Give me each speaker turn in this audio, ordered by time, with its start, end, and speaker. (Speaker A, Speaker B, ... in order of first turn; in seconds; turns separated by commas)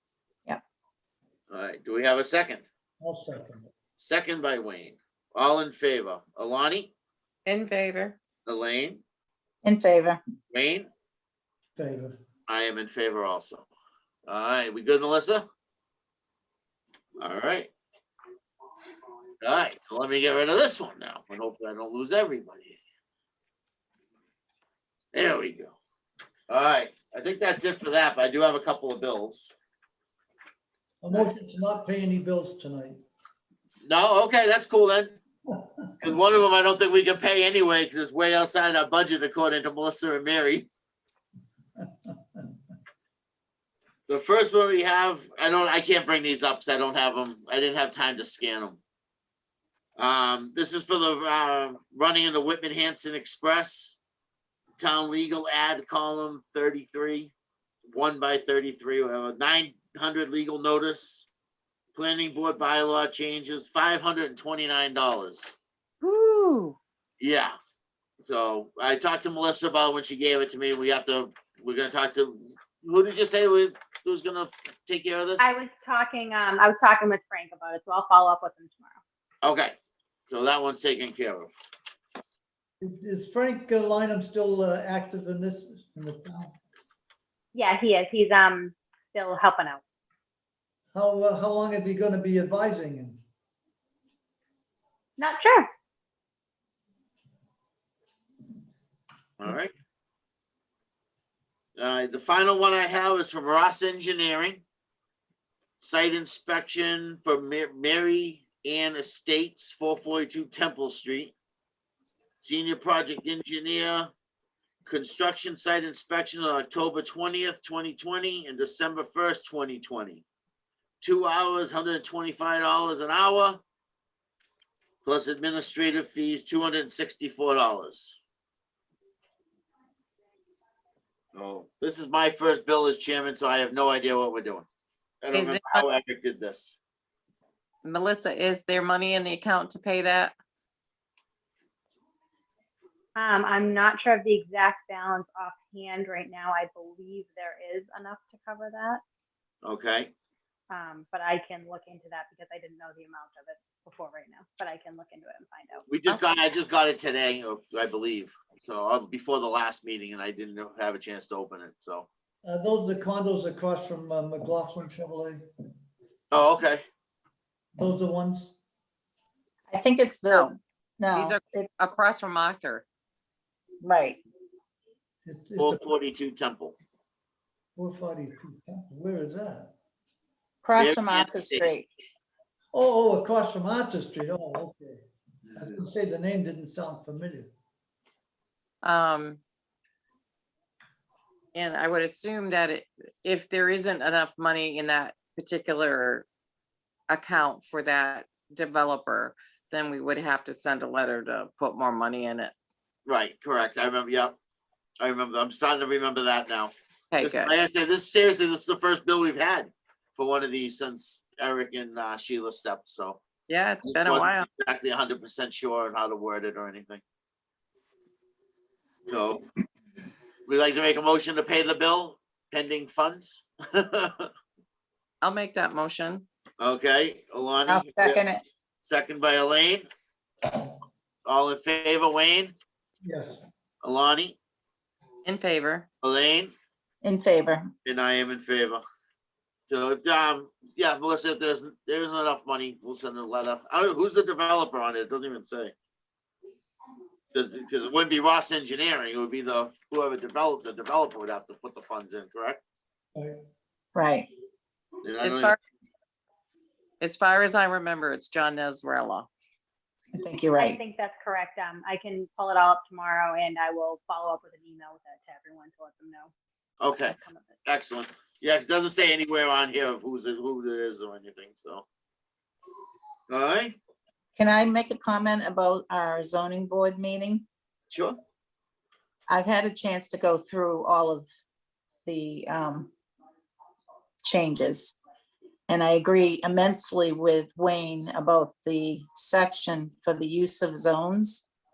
Speaker A: 1.5-2.6, Speaker B: 3.0-3.7, Speaker A: 4.0-6.9, Speaker C: 7.5-8.2, Speaker A: 8.5-9.0, Speaker D: 9.6-10.2, Speaker A: 10.5-10.9, Speaker B: 11.8-12.2, Speaker A: 12.5-13.7, Speaker A: 14.3-15.4, Speaker A: 17.2-17.7, Speaker A: 19.4-22.8, Speaker A: 25.1-25.8, Speaker A: 26.5-29.5, Speaker B: 31.0-33.0, Speaker A: 33.9-35.2, Speaker A: 36.0-40.7, Speaker A: 44.1-48.8, Speaker A: 50.0-54.0, Speaker A: 54.8-57.3, Speaker A: 57.9-61.3, Speaker A: 62.0-65.5, Speaker C: 66.0-66.8, Speaker A: 67.2-67.5, Speaker A: 68.2-75.5, Speaker E: 75.4-79.0, Speaker A: 79.4-79.8, Speaker A: 80.3-81.5, Speaker B: 82.8-86.6, Speaker E: 87.5-89.8, Speaker B: 90.9-93.2, Speaker E: 95.2-95.7, Speaker A: 99.4-99.7, Speaker A: 101.8-104.6, Speaker A: 105.8-111.3, Speaker A: 112.4-114.1, Speaker A: 114.9-120.2, Speaker A: 121.0-123.6, Speaker A: 125.0-128.2, Speaker A: 131.3-134.7, Speaker A: 135.2-136.8, Speaker C: 135.3-135.9, Speaker C: 137.8-140.3, Speaker E: 143.2-149.0, Speaker A: 149.6-150.1, Speaker E: 150.7-156.2, Speaker A: 155.9-162.1, Speaker B: 162.4-165.4, Speaker A: 166.3-166.8, Speaker B: 167.8-168.5, Speaker D: 169.7-171.7, Speaker C: 171.1-172.8, Speaker D: 173.8-174.2, Speaker B: 175.2-175.8, Speaker A: 175.6-176.8, Speaker B: 177.8-179.7, Speaker D: 180.6-181.9, Speaker A: 180.8-181.7, Speaker B: 182.7-187.5, Speaker C: 188.8-189.4, Speaker C: 191.5-196.2, Speaker C: 197.1-202.5, Speaker A: 203.1-204.4, Speaker A: 205.0-213.2, Speaker C: 207.1-207.5, Speaker C: 213.5-214.5, Speaker A: 213.8-217.0, Speaker A: 219.1-219.4, Speaker A: 220.5-224.3, Speaker C: 225.2-226.2, Speaker A: 226.6-228.2, Speaker D: 227.7-228.4, Speaker A: 228.8-229.9, Speaker A: 231.2-232.6, Speaker B: 233.0-233.4, Speaker A: 233.8-234.4, Speaker C: 235.2-235.9, Speaker A: 236.0-236.5, Speaker D: 237.0-237.7, Speaker A: 237.8-238.8, Speaker A: 239.7-245.7, Speaker A: 247.3-252.6, Speaker D: 253.9-254.3, Speaker A: 255.0-255.6, Speaker C: 255.2-255.6, Speaker C: 257.0-259.3, Speaker D: 260.1-260.8, Speaker E: 260.6-266.3, Speaker A: 266.8-271.9, Speaker E: 266.9-267.6, Speaker A: 273.3-273.8, Speaker D: 274.4-277.5, Speaker A: 277.9-278.2, Speaker D: 279.3-281.3, Speaker D: 282.1-282.9, Speaker D: 284.2-285.0, Speaker D: 285.7-291.5